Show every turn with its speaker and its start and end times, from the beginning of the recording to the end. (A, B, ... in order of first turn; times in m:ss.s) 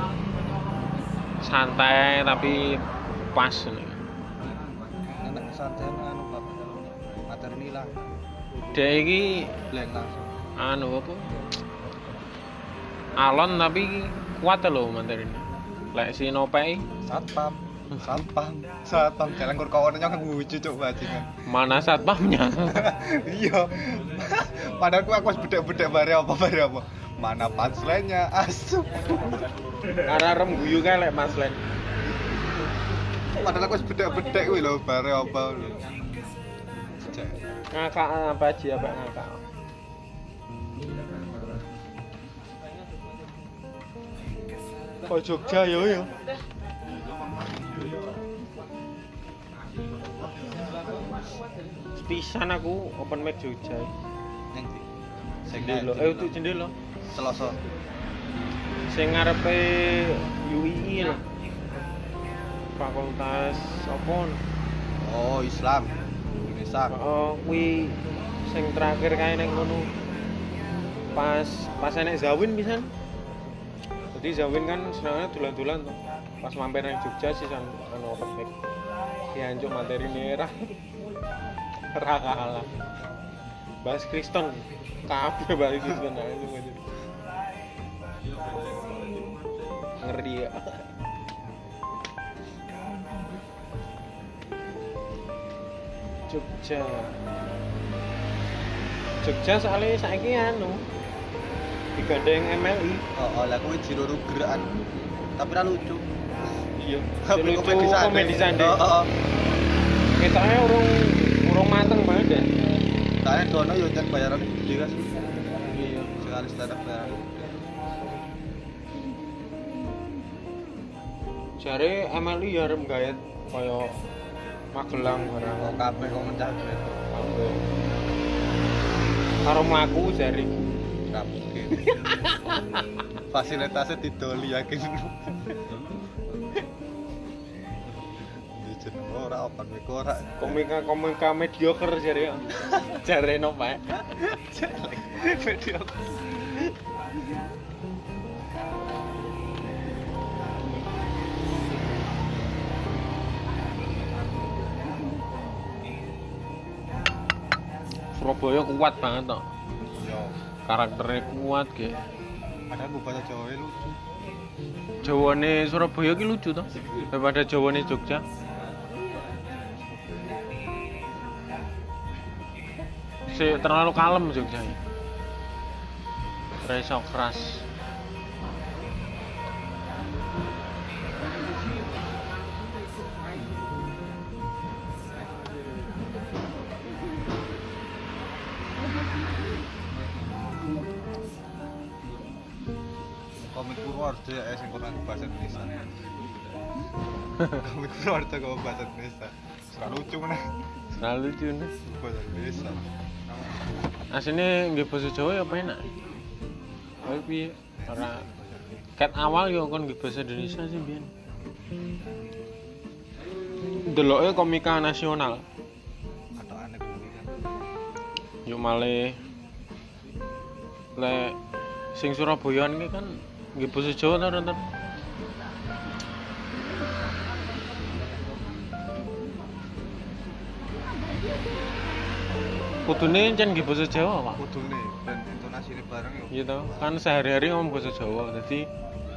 0:01.4-0:02.8 A
0:03.3-0:04.0 A
0:05.2-0:08.1 B
0:08.7-0:09.5 A
0:09.7-0:10.3 B
0:10.6-0:11.3 A
0:13.2-0:16.9 A
0:17.0-0:21.3 B
0:21.5-0:22.9 A
0:22.7-0:29.4 B
0:30.0-0:31.6 A
0:33.4-0:35.8 B
0:37.0-0:37.4 B
0:37.7-0:39.4 A
0:45.1-0:46.1 A
0:47.2-0:48.0 B
0:50.0-0:51.4 B
0:52.0-0:53.9 A
0:54.5-0:54.9 B
0:55.5-0:56.3 B
0:55.5-0:56.7 A
0:57.1-0:57.6 B
0:58.9-1:01.2 A
1:02.8-1:04.4 A
1:05.0-1:07.0 B
1:06.9-1:09.9 A
1:11.2-1:12.9 A
1:14.1-1:18.5 A
1:19.3-1:20.7 A
1:21.9-1:22.7 A
1:23.8-1:26.8 A
1:30.0-1:30.8 A
1:36.3-1:37.1 A
1:39.2-1:40.8 A
1:42.0-1:43.0 A
1:43.2-1:44.7 B
1:45.4-1:46.0 B
1:46.8-1:48.8 A
1:47.2-1:49.1 B
1:50.2-1:52.5 A
1:53.2-1:55.2 B
1:55.7-1:56.2 A
1:56.2-1:57.7 B
2:01.6-2:04.0 A
2:04.7-2:05.8 A
2:05.6-2:07.0 B
2:07.1-2:07.6 A
2:09.4-2:10.6 A
2:11.1-2:12.0 B
2:11.9-2:12.6 A
2:13.3-2:15.7 B
2:18.5-2:20.7 B
2:20.4-2:24.0 A
2:24.1-2:26.6 B
2:38.2-2:39.5 A
2:40.0-2:40.4 B
2:40.7-2:42.0 A
2:42.7-2:44.0 B
2:45.0-2:48.2 A
2:49.6-2:50.4 B
2:53.3-2:54.8 A
2:56.6-2:57.6 A
3:13.4-3:15.8 B
3:17.5-3:20.5 B
3:20.9-3:21.7 A
3:21.8-3:22.8 B
3:24.1-3:25.9 A
3:27.0-3:28.2 A
3:27.8-3:28.8 B
3:29.0-3:31.1 A
3:33.8-3:35.4 A
3:36.4-3:37.4 B
3:38.5-3:39.2 A
3:41.0-3:41.4 A
3:42.0-3:44.6 A
3:52.9-3:54.4 A
3:54.4-3:57.0 B
3:56.3-3:58.7 A